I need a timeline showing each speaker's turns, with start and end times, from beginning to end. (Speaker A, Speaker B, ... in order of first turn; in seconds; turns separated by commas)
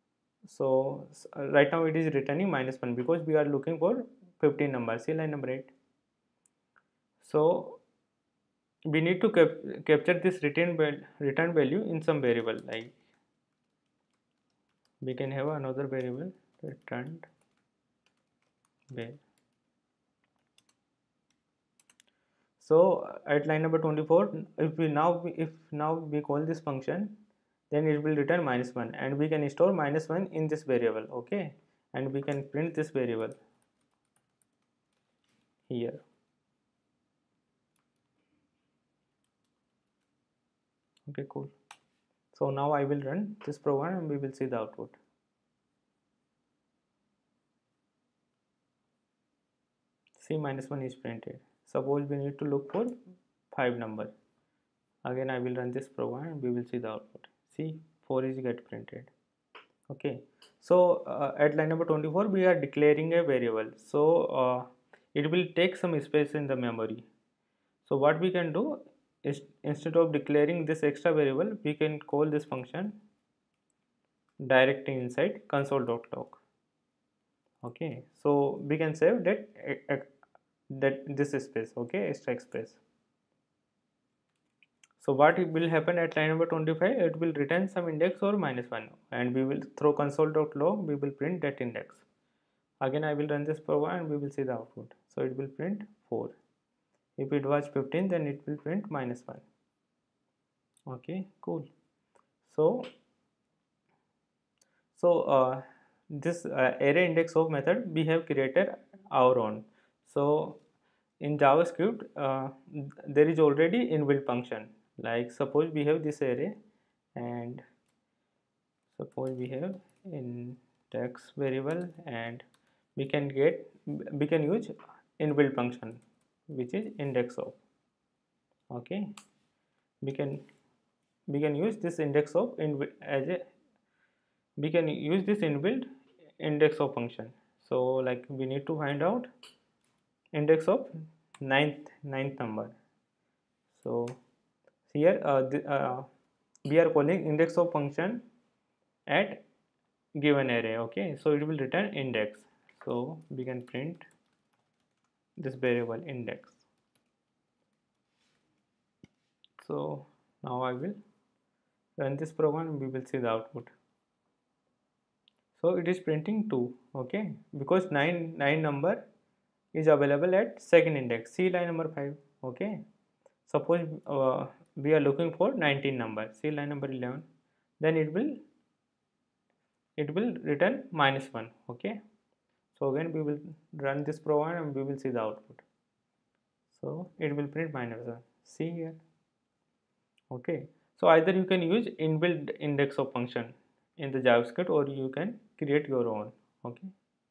Speaker A: 0.5-5.7, Speaker A: 7.2-7.8, Speaker A: 8.9-12.9, Speaker A: 15.0-17.3, Speaker A: 18.9-19.2, Speaker A: 22.6-27.2, Speaker A: 27.7-33.4, Speaker A: 35.7-36.0, Speaker A: 41.1-41.5, Speaker A: 42.3-45.0, Speaker A: 50.1-53.0, Speaker A: 53.5-54.1, Speaker A: 55.0-59.1, Speaker A: 59.9-67.1, Speaker A: 67.8-73.0, Speaker A: 74.4-76.4, Speaker A: 77.6-80.1, Speaker A: 80.7-82.8, Speaker A: 85.0-92.0, Speaker A: 92.8-96.3, Speaker A: 97.2-99.4, Speaker A: 100.9-101.7, Speaker A: 102.5-102.9, Speaker A: 104.9-110.6, Speaker A: 111.2-116.5, Speaker A: 117.2-117.6, Speaker A: 118.9-127.6, Speaker A: 128.7-129.1, Speaker A: 130.0-130.4, Speaker A: 131.3-133.5, Speaker A: 134.6-139.3, Speaker A: 140.3-142.7, Speaker A: 143.7-144.2, Speaker A: 144.9-146.1, Speaker A: 146.7-148.2, Speaker A: 149.1-149.4, Speaker A: 150.2-154.1, Speaker A: 155.4-156.6, Speaker A: 159.6-161.0, Speaker A: 162.0-163.7, Speaker A: 165.6-169.0, Speaker A: 169.7-172.8, Speaker A: 173.5-177.2, Speaker A: 177.8-178.4, Speaker A: 180.0-182.0, Speaker A: 182.7-185.6, Speaker A: 186.7-189.0, Speaker A: 190.3-196.9